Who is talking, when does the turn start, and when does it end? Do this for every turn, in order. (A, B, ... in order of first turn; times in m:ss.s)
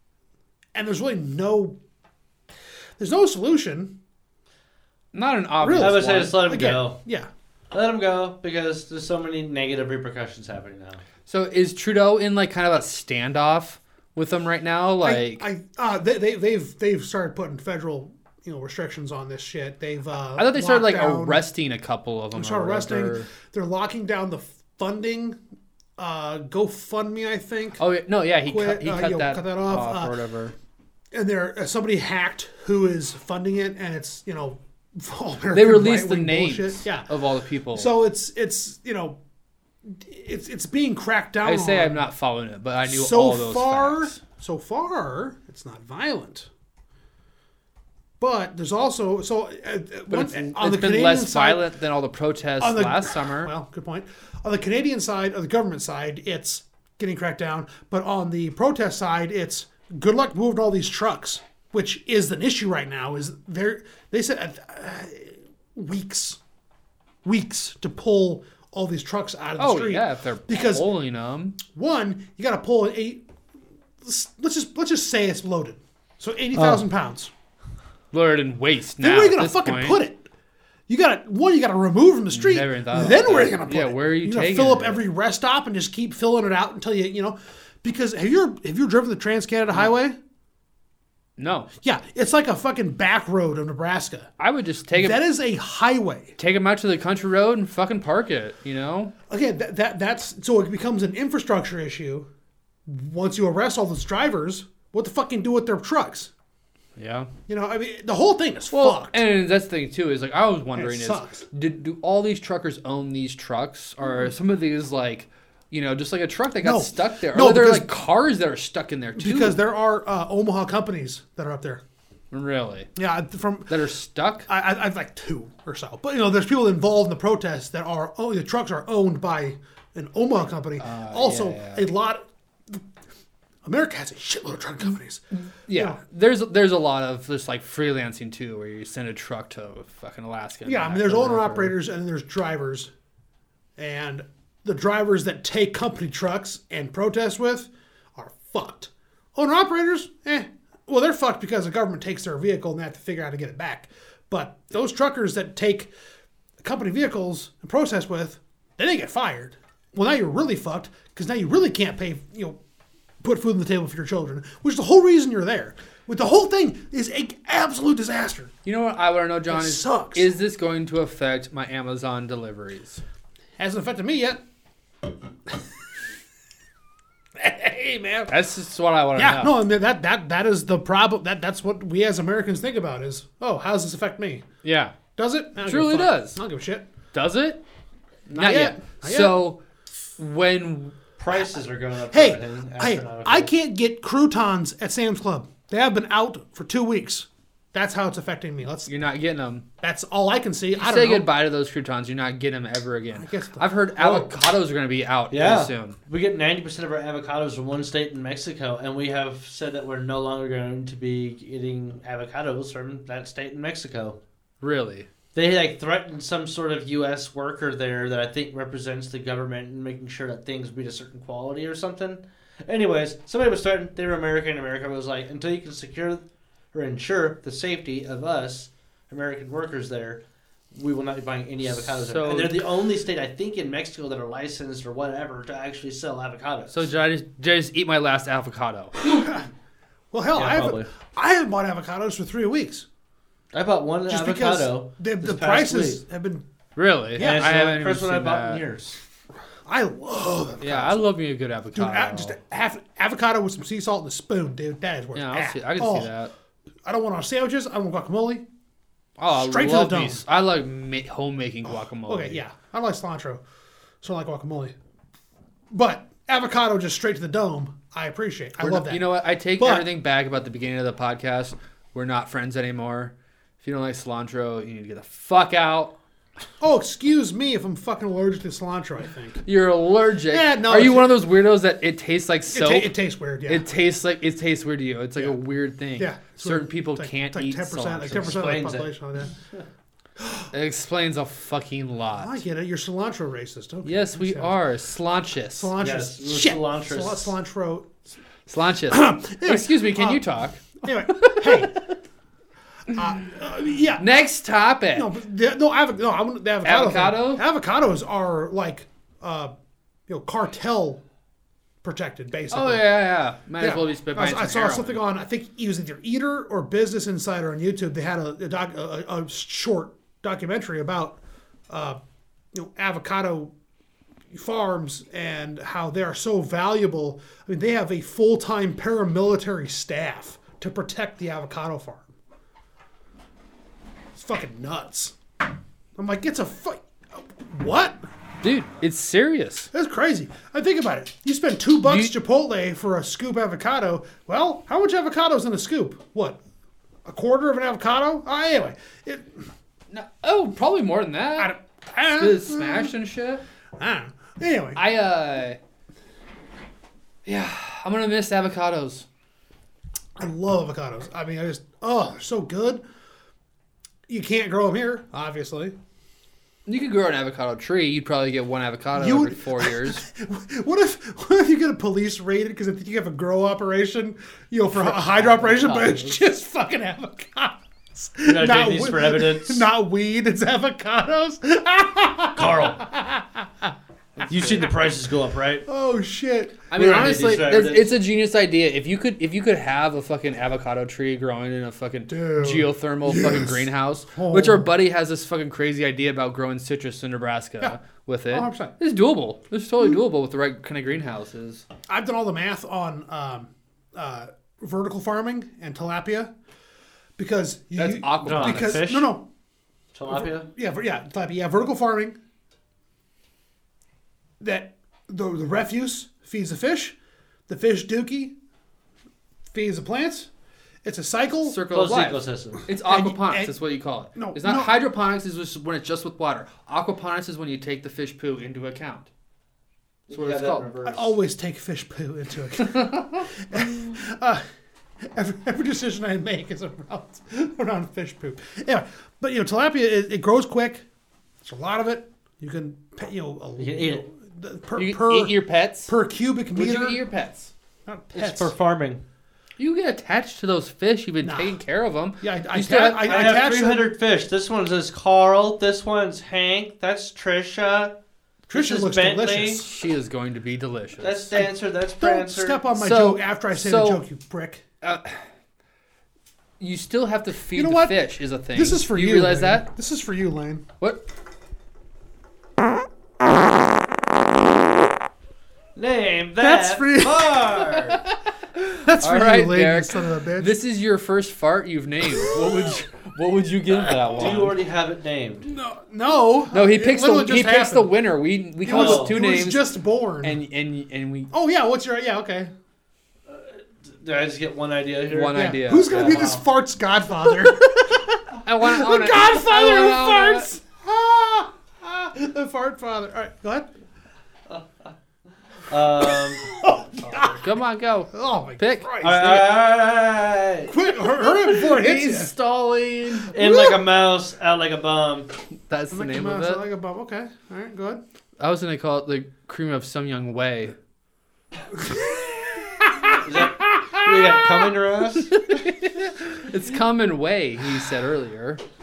0:00.7-0:01.8 A
0:03.0-0:04.0 A
0:05.1-0:06.4 B
0:05.6-0:07.3 A
0:05.8-0:07.0 C
0:07.7-0:11.0 C
0:11.3-0:15.4 B
0:15.0-0:21.4 A
0:20.4-0:23.3 B
0:22.3-0:25.4 A
0:26.0-0:27.8 A
0:27.8-0:30.5 B
0:28.4-0:30.2 A
0:31.1-0:37.1 A
0:35.5-0:37.9 B
0:37.7-0:39.2 A
0:39.8-0:42.1 A
0:41.4-0:44.2 B
0:42.8-0:46.5 A
0:48.2-0:51.6 A
0:50.1-0:53.5 B
0:52.6-1:06.4 A
1:07.2-1:10.9 A
1:09.6-1:11.6 B
1:11.6-1:13.2 A
1:14.0-1:17.3 A
1:16.5-1:16.8 C
1:18.1-1:20.0 B
1:19.0-1:20.3 A
1:20.9-1:30.2 A
1:22.3-1:25.0 B
1:31.4-1:31.7 B
1:31.8-1:34.3 A
1:34.4-1:35.2 B
1:34.9-1:36.3 A
1:36.4-1:39.1 B
1:39.3-1:42.3 A
1:42.8-1:46.3 A
1:47.0-1:47.3 B
1:47.5-1:49.2 A
1:48.7-1:59.6 B
1:50.7-1:51.4 A
1:56.6-1:57.9 A
1:59.2-2:01.8 A
2:02.3-2:02.9 B
2:02.9-2:03.8 A
2:03.7-2:04.5 B
2:04.5-2:12.8 A
2:10.8-2:11.9 B
2:13.6-2:16.0 A
2:15.6-2:21.7 B
2:20.6-2:22.9 A
2:23.8-2:35.9 A
2:36.6-2:42.6 A
2:43.2-2:48.5 A
2:48.6-2:53.0 B
2:49.5-2:50.3 A
2:53.6-2:54.4 A
2:57.4-2:58.3 A
2:58.3-2:59.5 B
2:59.1-3:04.4 A
3:04.6-3:05.0 B
3:05.1-3:06.9 A
3:05.6-3:06.4 B
3:07.1-3:07.6 B
3:08.3-3:09.4 A
3:08.3-3:09.6 B
3:10.2-3:11.0 B
3:11.2-3:13.5 C
3:12.1-3:18.9 A
3:18.9-3:19.6 B
3:19.8-3:21.3 A
3:20.7-3:26.0 B
3:23.1-3:24.2 A
3:24.0-3:24.2 C
3:25.3-3:34.2 C
3:34.6-3:35.1 B
3:35.3-3:56.9 C
3:51.9-3:52.7 B
3:56.7-3:58.9 B
3:59.0-3:59.5 A
4:00.1-4:02.8 A
4:00.3-4:00.9 C
4:03.5-4:06.0 C
4:04.1-4:06.4 A
4:06.8-4:08.6 B
4:07.2-4:07.6 A
4:07.2-4:09.0 C
4:09.7-4:11.0 A
4:10.6-4:12.4 B
4:11.7-4:16.1 A
4:15.1-4:16.3 B
4:16.8-4:18.4 A
4:19.2-4:22.4 B
4:19.3-4:20.2 A
4:21.7-4:23.4 A
4:24.0-4:24.7 A
4:25.7-4:29.9 A
4:28.6-4:35.9 B
4:36.6-4:39.4 A
4:39.4-4:48.6 B
4:40.3-4:41.2 A
4:42.5-4:43.7 A
4:46.0-4:49.3 A
4:48.1-4:48.9 C
4:50.2-4:50.4 A
4:50.5-4:52.4 B
4:52.2-4:54.5 A
4:53.8-4:55.7 B
4:55.5-4:58.0 A
4:55.8-4:57.3 C
4:58.5-5:01.9 B
4:58.9-5:00.2 A
5:00.8-5:01.8 A
5:02.9-5:04.2 A
5:04.0-5:05.1 B
5:04.9-5:09.5 A
5:06.6-5:07.4 B
5:10.1-5:11.0 A
5:11.8-5:12.9 A
5:12.5-5:15.0 B
5:13.6-5:22.0 A
5:22.5-5:23.5 A
5:24.3-5:32.1 A
5:34.1-5:35.2 A
5:36.0-5:38.0 A
5:38.4-5:39.7 B
5:39.7-5:46.4 A
5:41.8-5:42.1 B
5:47.0-5:49.5 A
5:49.9-5:51.5 B
5:51.4-5:52.9 A
5:52.1-5:53.4 B
5:53.8-5:54.8 A
5:54.8-5:55.6 B
5:57.2-5:59.0 B
6:00.2-6:02.8 A
6:04.1-6:05.8 A
6:06.6-6:10.0 B
6:08.9-6:23.7 A
6:14.8-6:16.2 C
6:18.2-6:19.6 C
6:22.4-6:22.8 C
6:24.2-6:24.6 B
6:24.3-6:25.7 C
6:25.6-6:26.9 A
6:26.7-6:41.6 B
6:26.7-6:28.0 C
6:32.1-6:34.7 A
6:38.3-6:38.7 A
6:41.9-6:46.3 A
6:47.2-6:49.3 A
6:47.8-6:48.9 B
6:48.2-6:49.2 C
6:49.9-6:50.5 C
6:50.1-6:52.2 A
6:54.4-6:57.0 A
6:57.5-6:58.4 A
6:59.5-7:00.3 A
7:00.8-7:01.6 A
7:01.4-7:09.1 B
7:01.7-7:02.6 C
7:02.8-7:03.6 A
7:04.1-7:04.8 A
7:10.1-7:11.1 C
7:10.1-7:10.7 B
7:10.8-7:14.4 A
7:15.0-7:20.8 A
7:21.4-7:27.0 A
7:23.6-7:24.0 C
7:24.8-7:25.9 B
7:26.5-7:27.5 B
7:27.8-7:28.5 A
7:28.1-7:29.0 C
7:29.6-7:33.2 B
7:31.2-7:31.6 A
7:32.2-7:33.9 A
7:33.0-7:38.0 C
7:38.5-7:39.7 A
7:38.5-7:39.6 C
7:39.6-7:41.4 B
7:41.0-7:42.6 C
7:42.0-7:44.6 A
7:42.8-7:44.0 B
7:44.8-7:45.2 B
7:46.6-7:49.7 B
7:47.5-7:48.0 A
7:48.5-7:50.7 A
7:55.8-7:58.0 C
7:56.4-7:57.5 A
7:58.6-8:04.6 B
7:58.8-8:00.6 A
8:02.1-8:02.8 A
8:03.9-8:04.5 A
8:04.1-8:05.5 C
8:05.4-8:08.0 A
8:06.5-8:09.7 B
8:08.6-8:10.4 A
8:08.7-8:09.2 C
8:10.2-8:11.3 B
8:11.3-8:12.5 A
8:13.3-8:16.4 C
8:15.1-8:16.3 B
8:15.3-8:23.7 A
8:18.4-8:20.5 B
8:24.5-8:24.9 C
8:25.6-8:26.4 C
8:26.0-8:27.5 A
8:27.3-8:29.5 B
8:28.1-8:29.4 A
8:29.0-8:30.7 C
8:30.7-8:32.3 A
8:31.4-8:33.4 B
8:33.3-8:35.3 C
8:33.4-8:33.8 A
8:35.7-8:36.6 B
8:35.9-8:38.0 A
8:38.4-8:40.8 B
8:41.7-8:43.2 A
8:43.2-8:45.3 C
8:43.7-8:44.0 A
8:45.3-8:48.6 B